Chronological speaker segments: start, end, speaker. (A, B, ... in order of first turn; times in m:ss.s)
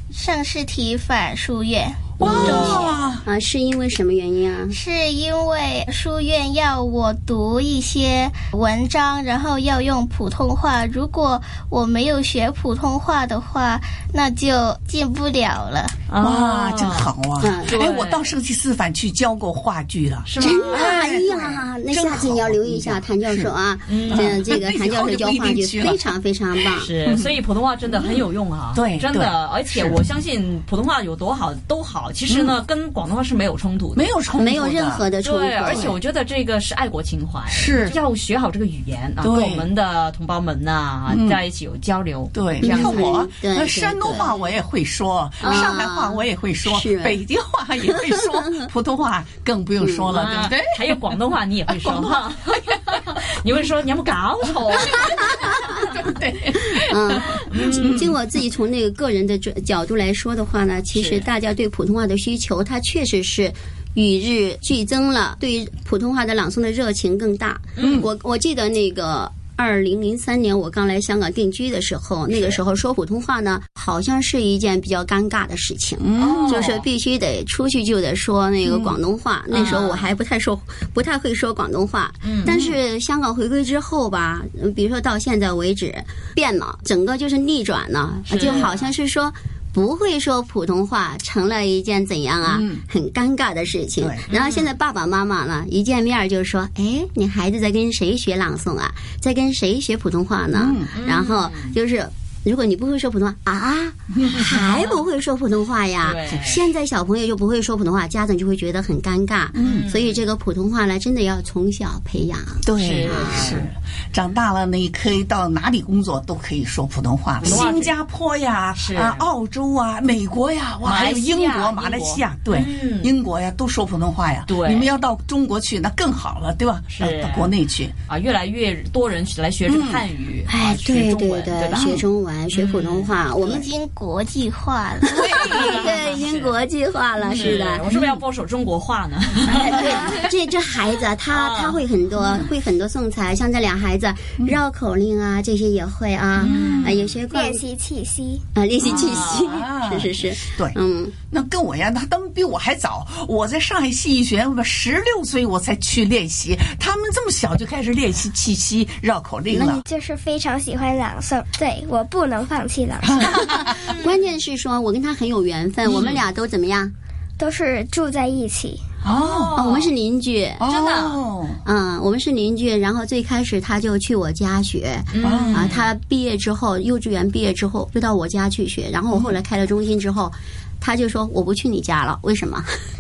0:00.1-0:03.0 A
0:02.2-0:02.8 B
0:02.2-0:03.2 C
0:02.2-0:04.8 D
0:04.7-0:16.0 A
0:16.1-0:17.2 B
0:16.2-0:23.5 C
0:17.4-0:17.8 D
0:17.7-0:18.4 B
0:20.2-0:20.9 B
0:20.4-0:26.9 D
0:23.9-0:24.5 B
0:24.1-0:26.1 C
0:26.7-0:34.1 B
0:27.1-0:27.4 C
0:28.7-0:30.0 C
0:32.3-0:32.6 C
0:34.0-0:35.1 C
0:34.4-0:36.0 D
0:35.2-0:43.1 B
0:37.5-0:38.0 C
0:39.2-0:39.6 C
0:41.1-0:41.4 C
0:42.3-0:51.1 C
0:42.6-0:44.4 D
0:45.4-0:47.2 D
0:47.9-0:48.6 D
0:49.8-0:50.2 D
0:50.1-0:55.7 B
0:51.7-0:52.3 C
0:55.5-0:58.1 C
0:56.9-1:53.6 D
0:57.5-0:58.1 B
1:00.9-1:01.3 B
1:07.8-1:08.0 B
1:16.0-1:16.6 C
1:16.2-1:16.9 B
1:18.6-1:19.0 C
1:19.5-1:20.1 B
1:22.2-1:22.6 B
1:22.5-1:22.8 C
1:28.3-1:28.9 B
1:32.5-1:32.8 C
1:34.0-1:34.2 C
1:34.3-1:34.7 B
1:40.5-1:40.9 C
1:40.9-1:41.8 B
1:44.2-1:44.5 C
1:44.5-1:45.0 B
1:46.0-1:46.7 B
1:49.6-1:49.9 C
1:49.6-1:50.2 B
1:52.6-2:07.9 C
1:52.8-1:53.7 B
1:57.4-1:57.9 B
1:58.8-1:59.2 B
2:00.8-2:03.1 B
2:04.5-2:05.0 B
2:06.9-2:07.6 B
2:08.1-2:13.2 B
2:09.6-2:10.0 C
2:10.5-2:13.6 D
2:13.4-2:15.7 A
2:15.1-2:17.8 D
2:15.1-2:16.1 C
2:15.5-2:16.6 B
2:17.2-2:20.2 B
2:17.4-2:18.2 C
2:19.5-2:27.6 D
2:21.3-2:22.5 B
2:26.4-2:27.2 B
2:26.4-2:27.0 C
2:27.3-2:28.4 E
2:28.6-2:31.2 D
2:28.8-2:30.8 C
2:28.9-2:29.5 B
2:31.3-2:39.8 C
2:39.5-2:39.8 D
2:39.7-2:43.6 E
2:43.4-2:46.9 D
2:45.9-2:46.2 B
2:47.4-2:48.8 E
2:49.0-2:49.6 C
2:49.1-2:49.9 B
2:49.6-2:50.6 D
2:50.6-2:51.6 C
2:50.6-2:51.2 B
2:51.6-3:02.7 D
2:55.1-2:55.9 B
2:55.2-2:55.8 C